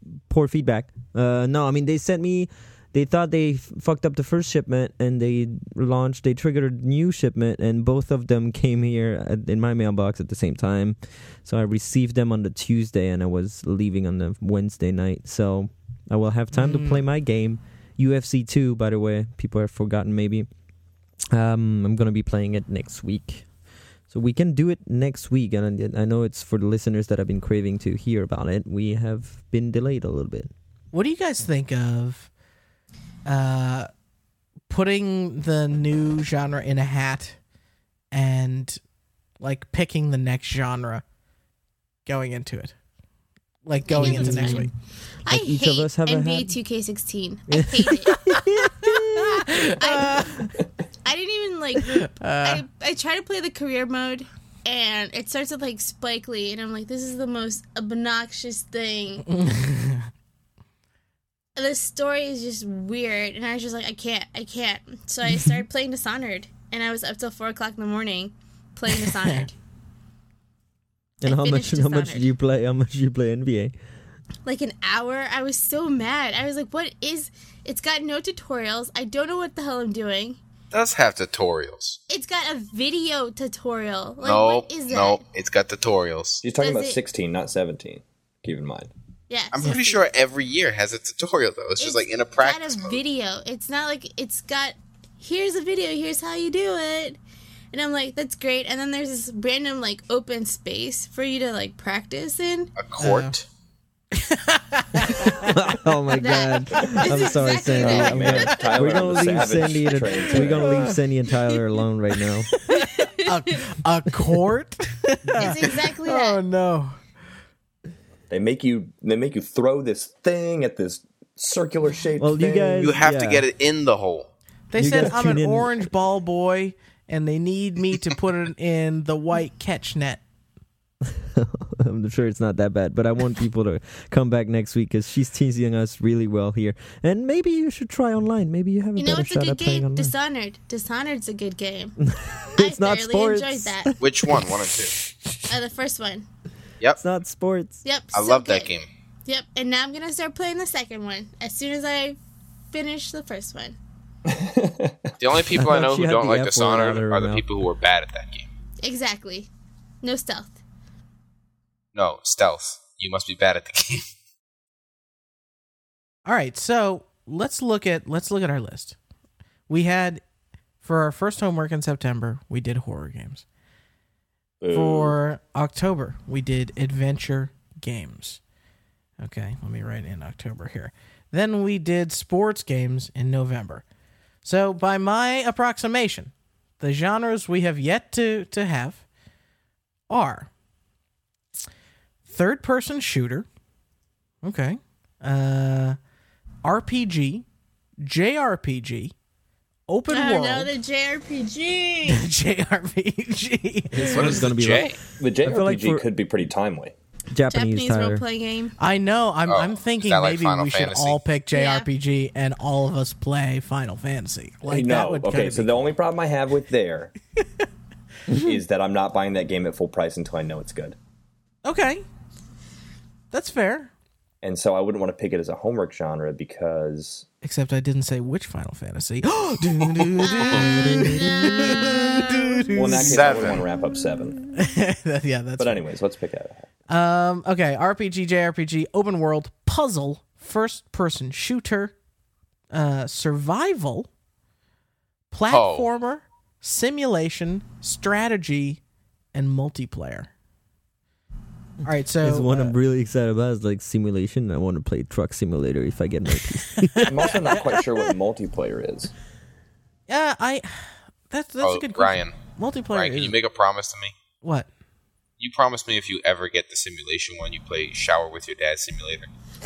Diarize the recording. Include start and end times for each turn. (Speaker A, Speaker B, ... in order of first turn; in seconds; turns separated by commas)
Speaker A: 0.3-20.5, Speaker B: 16.5-17.0, Speaker A: 21.3-23.4, Speaker A: 24.1-30.5, Speaker B: 30.9-32.3, Speaker B: 33.2-33.9, Speaker B: 34.7-37.4, Speaker B: 38.1-38.8, Speaker B: 39.4-41.0, Speaker B: 42.0-42.7, Speaker B: 43.6-44.7, Speaker C: 43.9-44.7, Speaker A: 43.9-44.7, Speaker C: 45.2-48.3, Speaker A: 45.3-46.5, Speaker A: 47.5-49.4, Speaker B: 48.1-50.5, Speaker C: 49.4-50.5, Speaker C: 51.0-59.3, Speaker B: 51.8-52.6, Speaker B: 59.3-60.1, Speaker C: 61.5-69.5, Speaker B: 65.3-65.6, Speaker B: 68.9-69.5, Speaker A: 71.2-73.7, Speaker C: 71.2-72.3, Speaker C: 74.4-80.4, Speaker D: 80.7-82.0, Speaker C: 82.1-85.2, Speaker D: 84.2-86.4, Speaker E: 86.4-88.9, Speaker C: 86.6-87.0, Speaker C: 89.3-90.0, Speaker D: 89.5-93.0, Speaker C: 91.8-97.2, Speaker C: 97.7-102.7, Speaker D: 102.8-103.5, Speaker B: 103.0-103.3, Speaker B: 104.1-105.5, Speaker A: 105.5-112.5, Speaker C: 106.1-108.5, Speaker E: 107.7-111.0, Speaker B: 110.4-110.9, Speaker B: 112.5-117.0, Speaker C: 112.8-113.3, Speaker C: 115.3-116.4, Speaker E: 118.3-122.9, Speaker A: 122.2-123.5, Speaker D: 122.8-124.3, Speaker B: 124.7-130.2, Speaker A: 124.8-125.9, Speaker A: 131.0-140.1, Speaker C: 138.9-141.9, Speaker A: 142.0-144.5, Speaker C: 142.6-143.9, Speaker D: 144.0-145.0, Speaker C: 145.5-146.3, Speaker A: 147.0-147.8, Speaker C: 147.8-148.7, Speaker D: 148.1-148.9, Speaker C: 149.2-152.2, Speaker C: 152.7-153.8, Speaker E: 154.2-155.1, Speaker D: 155.2-158.4, Speaker A: 155.5-157.4, Speaker C: 158.8-159.5, Speaker C: 160.0-160.6, Speaker D: 161.9-164.0, Speaker B: 166.2-169.0, Speaker B: 169.7-170.2, Speaker B: 170.8-173.4, Speaker E: 174.6-175.2, Speaker B: 174.7-178.4, Speaker B: 179.2-183.8, Speaker B: 184.4-189.0, Speaker B: 190.1-190.5, Speaker B: 192.2-193.5, Speaker B: 194.4-196.0, Speaker B: 196.6-197.4, Speaker B: 198.0-199.1, Speaker B: 199.9-200.7, Speaker C: 200.1-202.2, Speaker B: 202.1-204.3, Speaker A: 203.9-206.0, Speaker D: 204.1-205.0, Speaker E: 205.2-206.9, Speaker A: 207.3-208.2, Speaker C: 207.5-208.7, Speaker B: 208.8-215.8, Speaker D: 209.5-211.2, Speaker C: 211.5-211.9, Speaker E: 214.7-217.1, Speaker B: 217.4-217.6, Speaker E: 218.3-220.9, Speaker B: 221.6-222.0, Speaker B: 223.3-223.9, Speaker E: 224.4-227.2, Speaker B: 227.4-233.4, Speaker D: 230.2-231.8, Speaker C: 230.4-232.6, Speaker E: 232.7-234.4, Speaker D: 233.0-233.6, Speaker B: 234.5-235.8, Speaker E: 235.6-236.7, Speaker B: 236.9-241.9, Speaker B: 242.7-244.1, Speaker B: 245.3-248.8, Speaker D: 245.5-245.9, Speaker B: 249.3-250.3, Speaker A: 251.8-257.3, Speaker B: 251.8-252.7, Speaker B: 256.7-257.8, Speaker E: 257.0-259.1, Speaker B: 260.1-263.4, Speaker D: 261.6-262.4, Speaker D: 262.9-264.1, Speaker B: 264.4-264.7, Speaker D: 265.4-269.3